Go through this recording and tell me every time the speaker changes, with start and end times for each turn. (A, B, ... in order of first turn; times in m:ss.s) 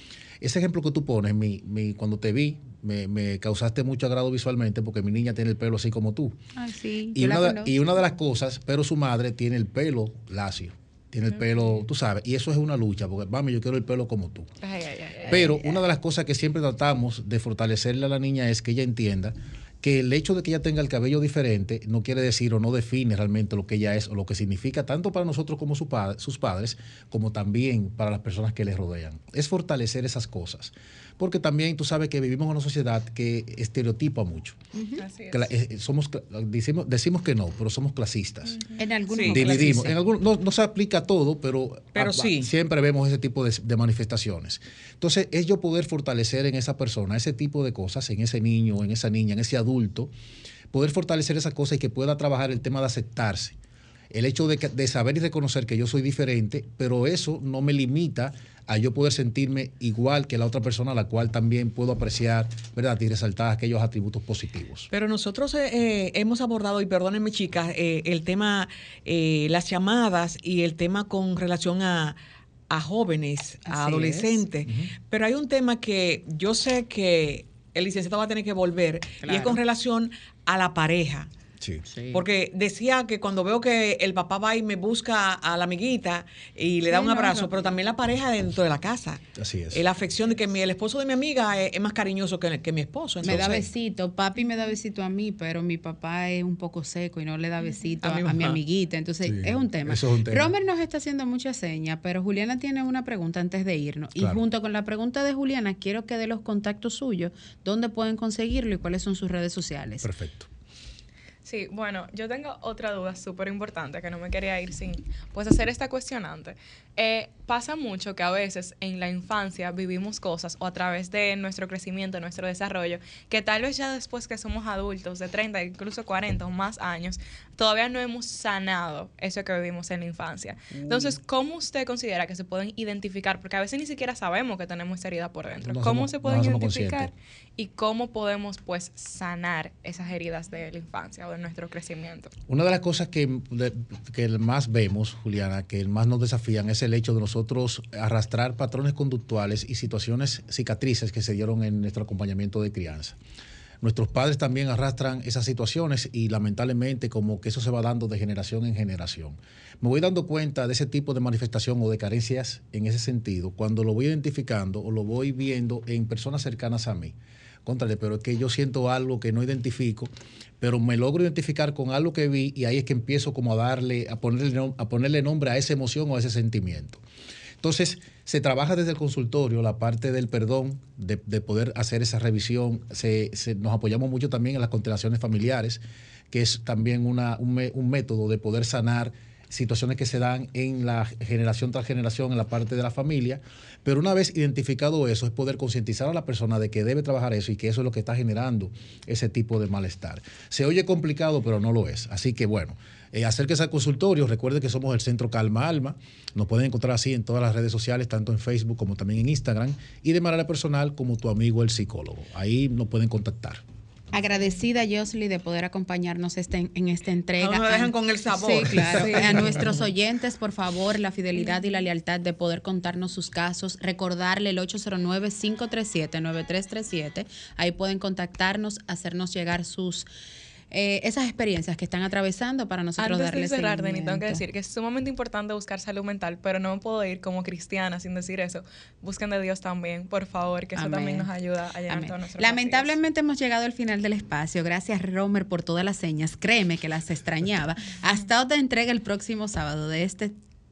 0:00.4-0:06.3 A
0:06.6-0:07.7 B
0:07.1-0:14.5 A
0:14.6-0:15.5 C
0:15.3-0:15.8 B
0:15.3-0:34.6 A
0:35.0-0:35.5 C
0:35.3-0:38.6 A
0:38.8-0:40.0 B
0:39.1-0:39.8 D
0:39.3-0:50.1 A
0:41.9-0:42.5 D
0:50.7-0:53.6 A
0:54.1-1:04.9 A
1:04.9-1:12.2 D
1:12.7-1:21.3 D
1:13.6-1:14.4 B
1:19.2-1:19.6 B
1:21.9-1:22.2 B
1:22.1-1:33.6 D
1:26.9-1:27.5 B
1:29.4-1:29.8 A
1:33.2-1:50.1 B
1:33.2-1:33.6 A
1:38.0-1:38.6 D
1:39.2-1:40.5 A
1:44.2-1:44.4 A
1:50.0-1:50.5 A
1:51.4-2:22.3 C
2:10.7-2:11.2 A
2:15.6-2:17.1 A
2:22.5-2:33.2 A
2:33.8-2:57.0 A
2:57.6-3:33.6 A
3:34.1-3:50.1 B
3:37.4-3:39.6 D
3:50.7-3:54.4 B
3:53.0-4:03.0 C
4:00.7-4:01.3 B
4:01.9-4:10.3 B